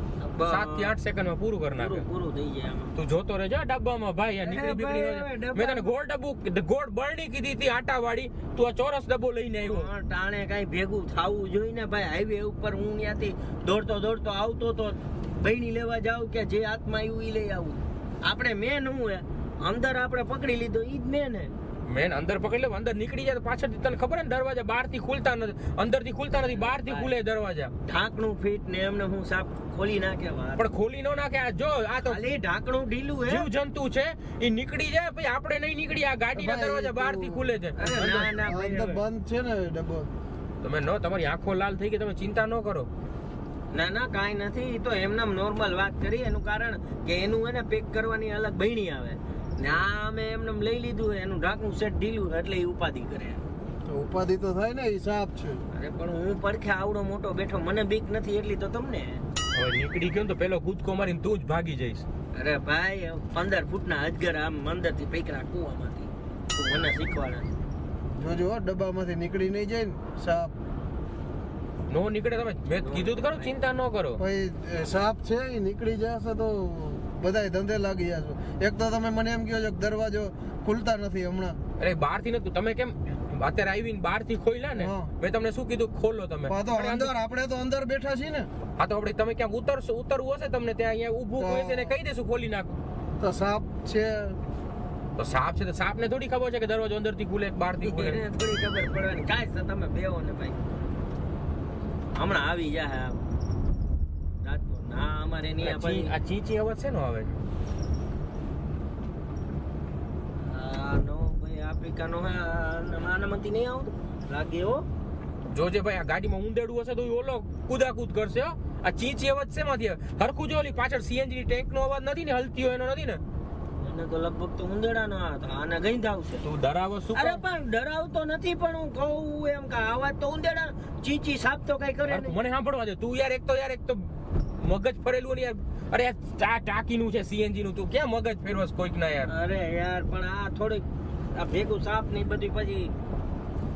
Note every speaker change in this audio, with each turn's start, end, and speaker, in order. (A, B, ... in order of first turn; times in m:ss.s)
0:00.2-0:01.0 A
0:00.4-0:02.1 B
0:01.7-0:02.9 A
0:03.0-0:09.9 B
0:04.4-0:05.9 A
0:09.6-0:21.5 A
0:21.8-0:27.7 B
0:26.5-0:27.1 A
0:27.8-0:30.6 A
0:30.6-0:32.2 B
0:32.0-0:33.5 A
0:33.3-0:37.8 B
0:36.3-0:40.1 C
0:37.8-0:39.0 A
0:40.6-0:42.9 B
0:43.7-0:53.4 A
0:53.8-0:55.6 C
0:55.7-0:59.2 A
0:59.5-1:02.0 B
1:02.3-1:07.5 A
1:08.2-1:10.5 C
1:11.9-1:14.2 B
1:12.8-1:13.5 A
1:14.2-1:21.6 C
1:21.8-1:27.1 B
1:24.8-1:25.1 C
1:26.5-1:28.5 C
1:28.8-1:32.8 B
1:31.4-1:31.9 C
1:33.2-1:34.4 C
1:35.2-1:38.2 B
1:37.8-1:40.6 A
1:42.1-1:43.2 A
1:44.4-1:46.1 A
1:45.6-1:47.3 B
1:50.4-1:54.8 A
1:55.5-2:03.2 B
2:03.8-2:06.4 A
2:06.4-2:07.4 B
2:07.1-2:12.3 A
2:12.1-2:19.3 B
2:19.3-2:22.9 A